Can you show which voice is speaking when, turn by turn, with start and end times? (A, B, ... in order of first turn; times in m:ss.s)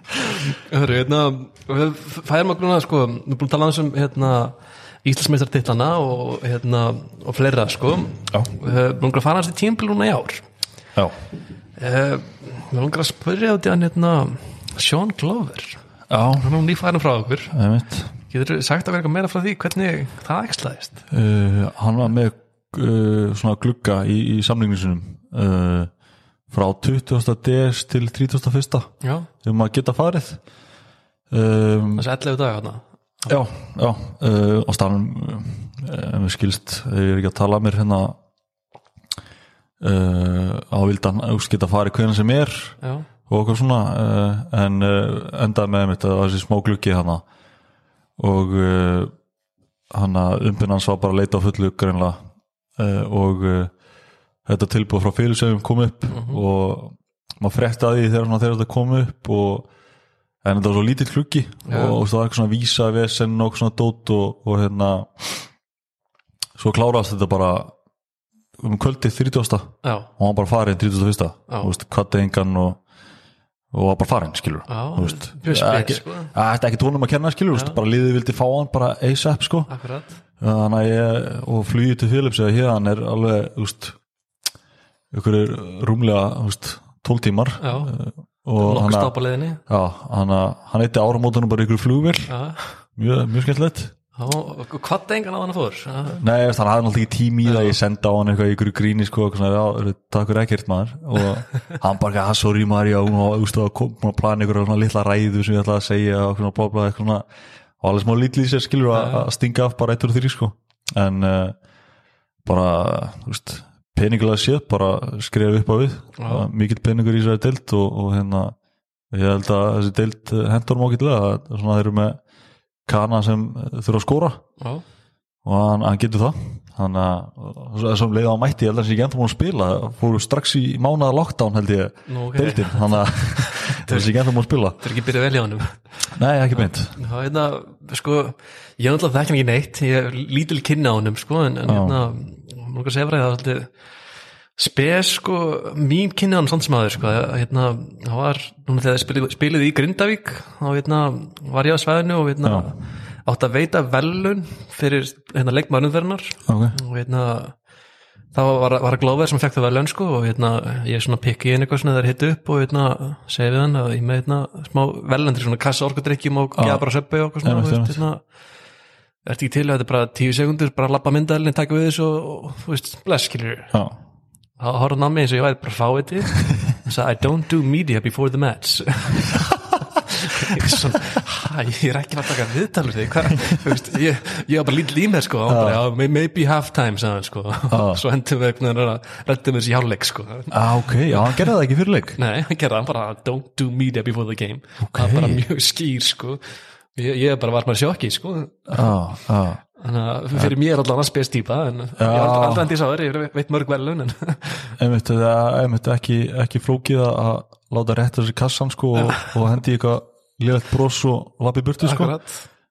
0:00.3-0:10.4 A
0:11.8-0:15.8 A
0:16.1-0:16.6 B
0:16.4-0:17.5 A
0:17.5-0:18.1 B
0:18.3-0:21.0 A
0:21.1-0:25.9 B
0:26.5-0:28.9 B
0:29.0-0:29.3 A
0:29.4-0:30.4 B
0:31.3-0:32.1 B
0:32.0-0:32.8 A
0:33.3-0:38.2 B
0:39.8-0:47.2 B
0:42.8-0:43.1 A
0:48.2-0:49.1 B
0:49.9-0:52.2 B
0:52.8-0:53.7 B
0:54.5-0:59.7 B
0:56.1-0:56.4 A
1:00.4-1:05.5 B
1:01.7-1:02.0 A
1:06.6-1:07.7 B
1:08.6-1:12.8 B
1:09.8-1:10.1 A
1:13.7-1:19.7 B
1:14.7-1:16.3 A
1:19.7-1:20.1 A
1:20.4-1:24.0 B
1:25.1-1:29.1 B
1:27.6-1:27.9 A
1:28.6-1:29.6 A
1:29.7-1:32.3 B
1:32.3-1:32.7 A
1:33.0-1:33.9 B
1:34.2-1:36.2 A
1:36.1-1:47.2 B
1:37.5-1:37.8 A
1:47.8-1:51.6 B
1:48.9-1:49.3 A
1:52.4-1:58.6 B
1:56.2-1:56.5 A
1:59.1-2:02.2 B
2:02.9-2:04.4 B
2:05.4-2:14.8 B
2:12.1-2:14.1 A
2:14.8-2:15.8 A
2:16.2-2:17.0 B
2:17.0-2:23.7 A
2:21.7-2:22.0 B
2:24.6-2:37.6 A
2:32.4-2:32.7 B
2:36.5-2:36.8 B
2:38.3-2:48.2 A
2:46.6-2:46.9 B
2:47.4-2:48.0 B
2:49.2-2:53.8 A
2:54.6-2:59.4 A
3:00.1-3:11.4 A
3:05.5-3:05.8 B
3:07.7-3:08.0 B
3:10.5-3:12.2 B
3:12.2-3:16.4 A
3:14.9-3:15.4 B
3:17.0-3:18.9 A
3:18.7-3:19.6 B
3:19.8-3:24.7 A
3:22.0-3:22.7 B
3:24.8-3:32.2 B
3:31.8-3:32.4 A